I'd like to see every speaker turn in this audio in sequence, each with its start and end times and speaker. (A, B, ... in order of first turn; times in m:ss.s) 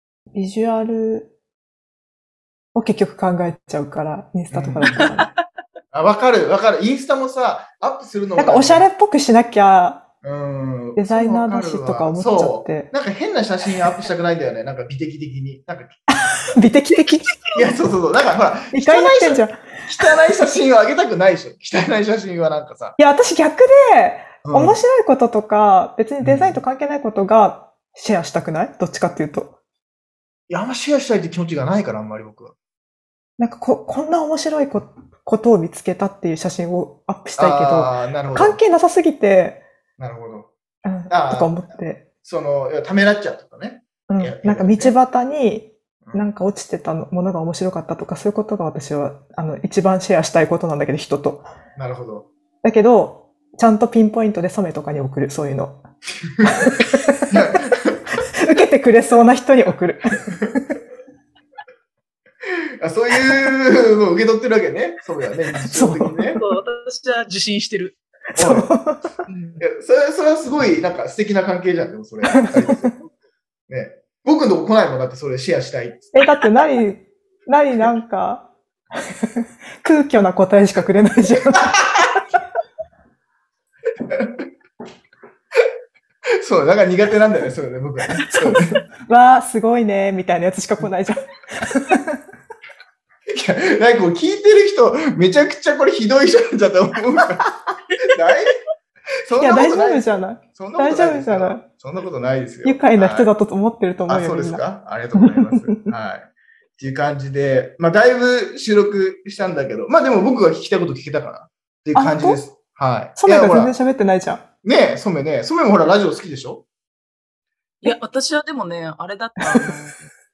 0:00.3-0:01.3 A
0:02.8-0:05.3 A
0:04.5-0:05.1 B
0:05.9-0:08.9 B
0:08.4-0:10.0 A
0:10.2-0:16.0 B
0:11.0-0:12.9 A
0:16.1-0:17.4 A
0:17.5-0:23.0 B
0:18.7-0:19.6 A
0:23.0-0:29.6 A
0:24.4-0:24.8 B
0:26.2-0:26.6 B
0:30.5-0:32.6 B
0:33.4-0:39.6 A
0:37.4-0:38.6 B
0:40.0-0:40.5 B
0:40.8-0:42.0 A
0:41.1-0:41.7 B
0:42.2-0:45.0 B
0:44.1-0:51.4 A
0:51.8-0:52.3 B
0:52.6-0:55.8 A
0:56.4-0:56.7 B
0:56.4-0:57.6 A
0:57.3-0:58.0 B
0:58.4-1:00.6 A
1:02.8-1:06.4 B
1:05.7-1:06.5 A
1:06.4-1:08.0 C
1:08.3-1:09.2 A
1:08.4-1:08.7 B
1:09.3-1:09.6 C
1:09.6-1:13.0 B
1:12.3-1:12.9 A
1:13.7-1:16.1 B
1:16.1-1:22.1 A
1:24.1-1:24.4 B
1:26.4-1:28.8 B
1:28.2-1:32.2 A
1:33.3-1:38.6 B
1:39.3-1:43.3 B
1:39.4-1:41.6 A
1:42.6-1:44.6 A
1:44.1-1:53.8 B
1:45.2-1:45.9 A
1:52.0-1:52.4 A
1:53.2-1:54.4 A
1:54.6-1:56.6 B
1:57.8-2:00.1 C
1:59.4-1:59.7 A